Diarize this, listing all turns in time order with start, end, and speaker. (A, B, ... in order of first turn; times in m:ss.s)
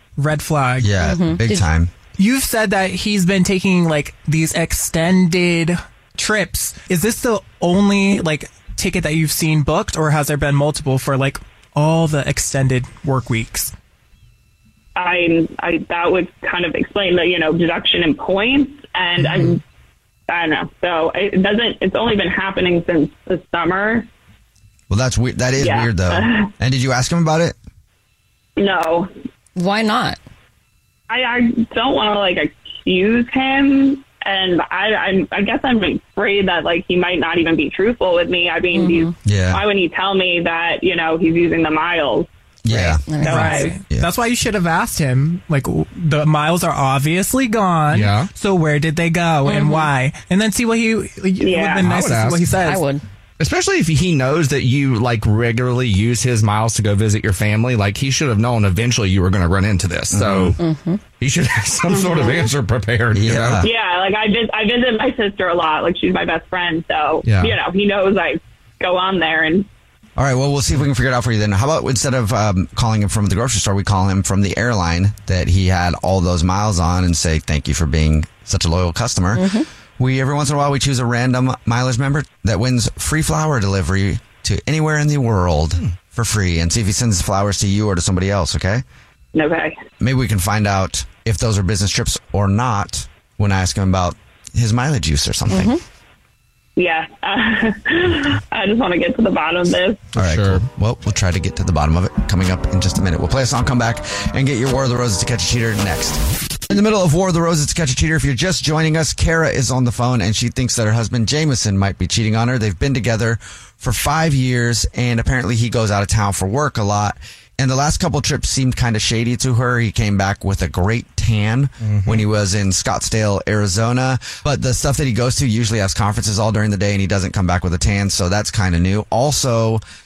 0:00.2-0:01.0 A
0:00.8-0:01.9 B
0:01.0-0:01.7 C
0:02.2-0:13.7 A
0:15.0-0:19.6 D
0:19.2-0:19.5 A
0:20.3-0:24.1 D
0:24.9-0:27.6 B
0:25.6-0:26.5 D
0:28.6-0:29.1 D
0:29.6-0:30.2 C
0:31.1-0:42.3 D
0:38.7-0:39.1 C
0:39.2-0:39.6 B
0:42.6-0:43.0 B
0:42.7-0:43.8 C
0:43.2-0:52.8 A
0:43.2-0:43.7 D
0:47.9-0:48.3 E
0:49.4-0:49.9 C
0:51.4-0:51.9 D
0:51.9-0:52.5 E
0:52.6-0:53.0 C
0:53.4-1:00.6 E
1:00.1-1:00.6 B
1:00.6-1:01.0 C
1:01.2-1:03.6 E
1:03.1-1:03.7 B
1:03.6-1:09.7 D
1:07.2-1:07.6 E
1:10.2-1:28.8 B
1:19.3-1:19.7 C
1:29.3-1:29.8 D
1:30.0-1:35.8 B
1:35.5-1:35.8 C
1:36.8-1:40.0 D
1:40.2-2:09.8 B
1:40.2-1:40.7 E
2:01.8-2:02.2 E